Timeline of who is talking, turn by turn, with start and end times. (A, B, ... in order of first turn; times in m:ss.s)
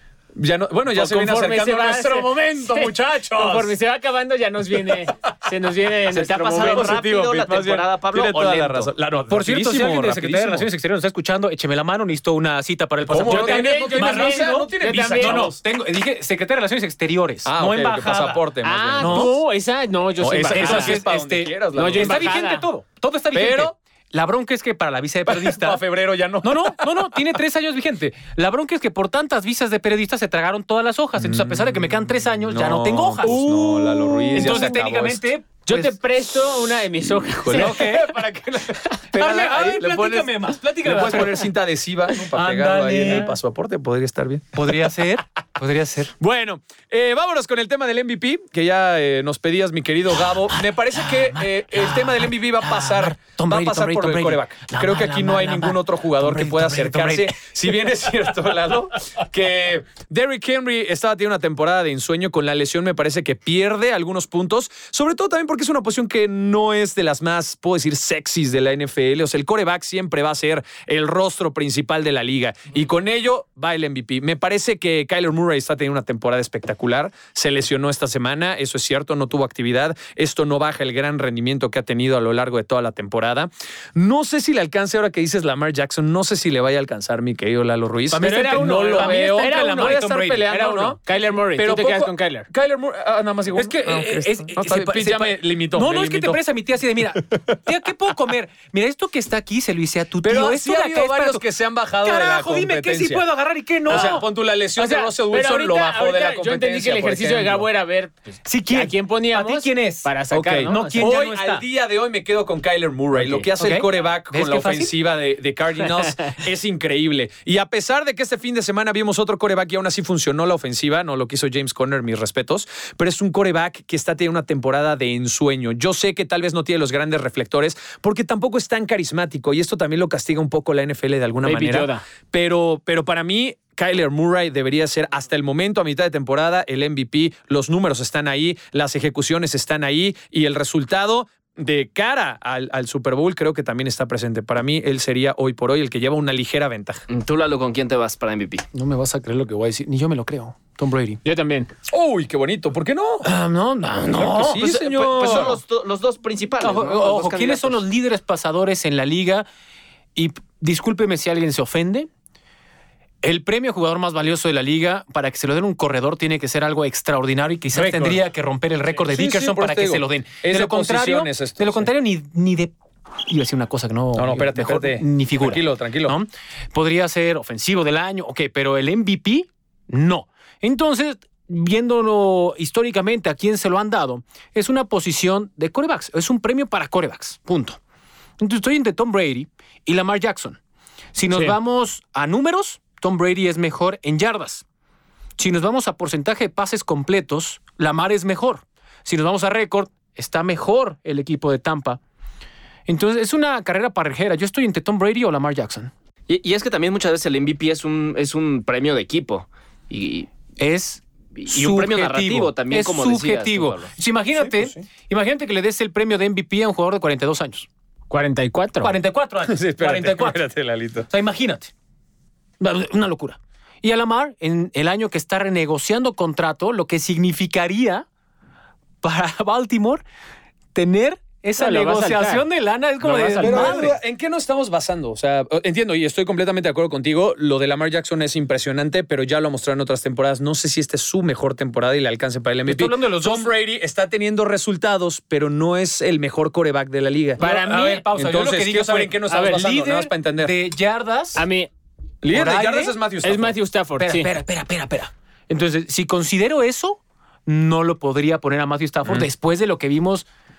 0:00.4-0:03.7 A
0:00.9-0:06.9 B
0:06.1-0:08.9 C
0:06.2-0:10.7 A
0:09.3-0:18.4 D
0:13.1-0:15.6 A
0:13.2-0:15.5 B
0:17.4-0:19.4 A
0:18.6-0:21.0 B
0:19.0-0:19.4 D
0:20.2-0:22.3 A
0:20.3-0:25.8 D
0:21.7-0:22.6 B
0:23.3-0:23.7 A
0:25.3-0:27.2 A
0:26.4-0:35.9 D
0:31.2-0:35.2 A
0:34.3-0:34.7 B
0:35.7-0:38.0 B
0:37.2-0:38.3 A
0:37.5-0:41.4 D
0:39.1-0:44.9 A
0:42.3-0:43.3 D
0:44.5-0:46.1 D
0:46.2-1:31.0 A
0:51.0-0:57.4 D
1:28.1-1:30.8 D
1:28.2-1:32.5 B
1:31.6-1:36.4 A
1:33.6-1:41.4 D
1:37.2-1:37.5 A
1:40.2-1:43.2 A
1:42.0-1:44.2 D
1:43.9-1:47.7 A
1:43.9-1:44.2 B
1:44.8-1:51.1 B
1:48.4-1:51.6 D
1:50.3-2:27.0 A
1:53.2-1:53.4 B
1:53.6-1:54.9 D
2:11.4-2:12.0 B
2:27.1-2:28.6 C
2:28.7-2:31.2 D
2:31.2-2:31.7 B
2:31.9-2:33.3 A
2:33.2-2:34.7 D
2:34.1-2:35.6 A
2:34.6-2:37.8 C
2:36.6-2:39.5 D
2:40.1-2:42.1 D
2:43.2-2:52.7 D
2:47.7-2:48.2 A
2:49.0-2:51.9 A
2:53.2-3:07.8 D
2:54.1-2:56.1 A
3:08.4-3:10.6 D
3:11.1-3:14.6 D
3:15.4-3:22.0 D
3:22.9-3:25.9 D
3:26.3-3:30.3 C
3:30.6-3:37.7 D
3:31.4-3:33.9 C
3:34.4-3:34.8 A
3:38.1-3:38.9 B
3:38.8-3:40.4 D
3:39.5-3:41.1 A
3:41.1-3:41.7 D
3:42.6-3:48.0 D
3:49.0-3:50.0 D
3:50.7-3:53.9 D
3:51.6-3:52.4 B
3:53.0-3:53.9 B
3:53.4-4:07.4 A
4:02.6-4:03.5 D
4:07.4-4:08.0 B
4:07.4-4:11.4 D
4:08.1-4:10.5 A
4:09.3-4:09.6 B
4:11.3-4:11.7 B
4:12.2-4:13.6 A
4:12.3-4:13.0 D
4:13.2-4:14.3 B
4:14.0-4:20.2 D